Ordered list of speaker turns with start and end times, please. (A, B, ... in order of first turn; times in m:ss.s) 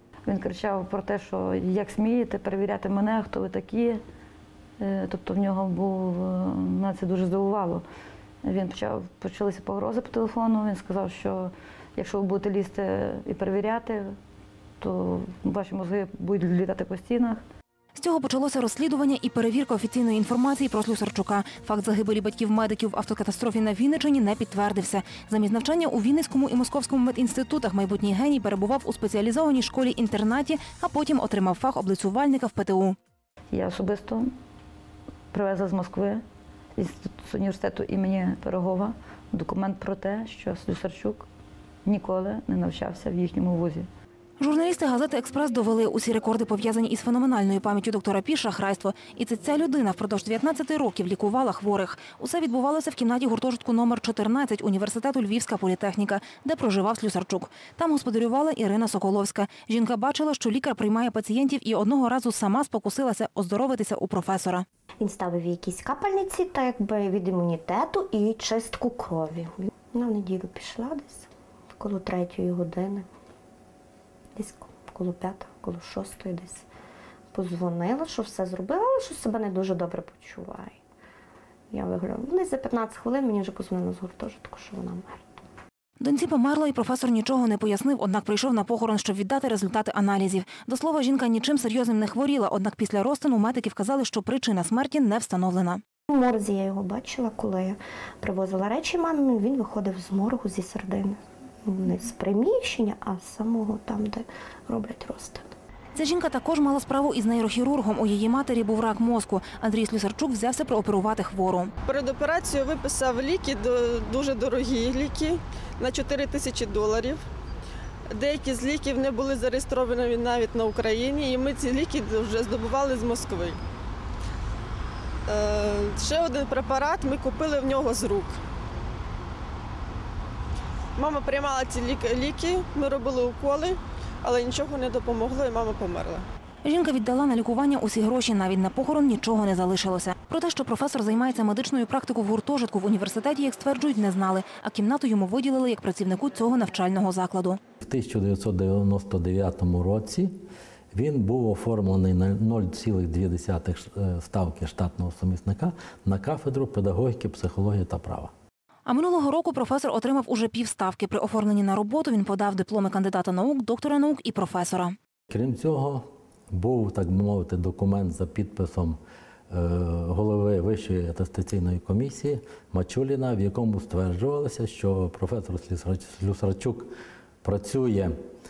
0:00.2-0:04.0 A
0:04.8-0:07.8 A
0:08.4-0:14.2 A
0:14.8-0:17.4 A
0:17.9-0:33.0 B
0:33.5-0:34.3 A
0:35.3-0:36.2 A
0:36.8-0:41.3 A
0:41.8-0:43.9 A
0:44.4-1:04.6 B
1:05.0-1:13.1 C
1:14.4-1:16.7 C
1:17.3-1:20.8 C
1:21.7-1:25.4 C
1:26.0-1:35.8 B
1:36.1-1:45.5 C
1:45.9-1:51.7 B
1:51.8-1:57.2 D
1:58.1-2:03.6 D
2:05.3-2:08.4 D
2:11.0-2:16.2 D
2:16.6-2:27.6 B
2:27.8-2:30.3 E
2:30.9-2:38.3 E
2:38.8-2:44.9 B
2:45.3-2:49.0 E
2:49.5-2:56.9 E
2:57.4-2:58.1 E